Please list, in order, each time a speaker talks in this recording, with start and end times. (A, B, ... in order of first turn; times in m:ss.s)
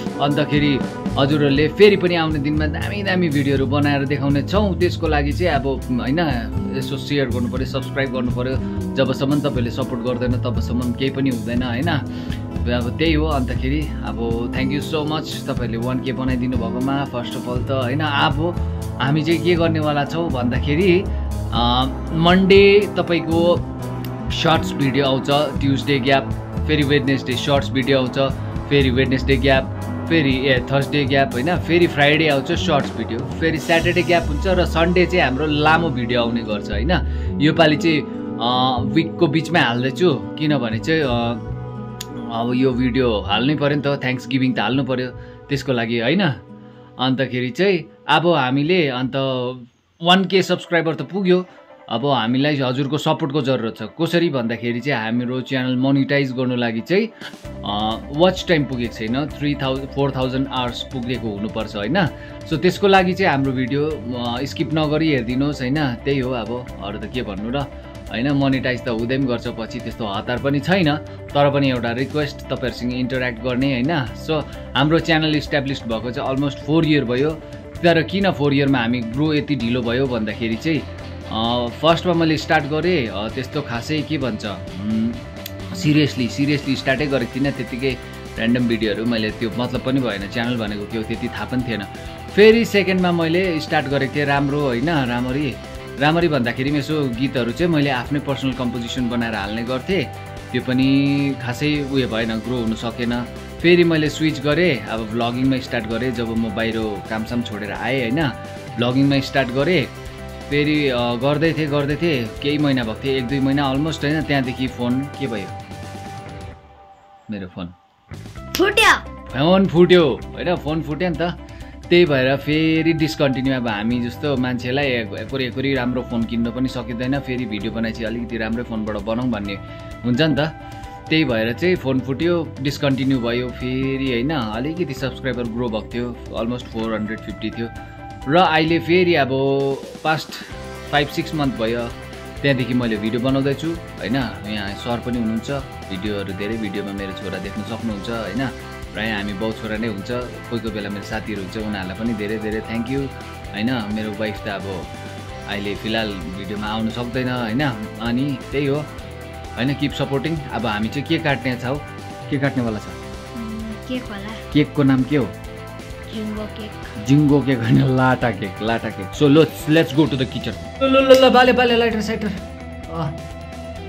0:00.2-0:12.0 A
0:12.6-0:23.6 A
0:24.3-0:41.4 A
0:42.2-0:46.3 A
0:47.0-0:57.1 A
0:57.6-1:49.9 A
1:50.5-1:55.6 A
1:57.3-1:57.7 A
1:58.6-1:59.0 B
1:59.3-2:01.3 A
2:01.9-2:10.5 A
2:11.1-2:17.7 A
2:18.3-2:34.8 A
2:35.5-2:38.8 A
2:39.6-2:43.0 A
2:43.4-2:44.4 B
2:44.5-2:45.3 A
2:46.1-2:46.9 B
2:47.0-2:52.4 A
2:52.9-2:53.2 A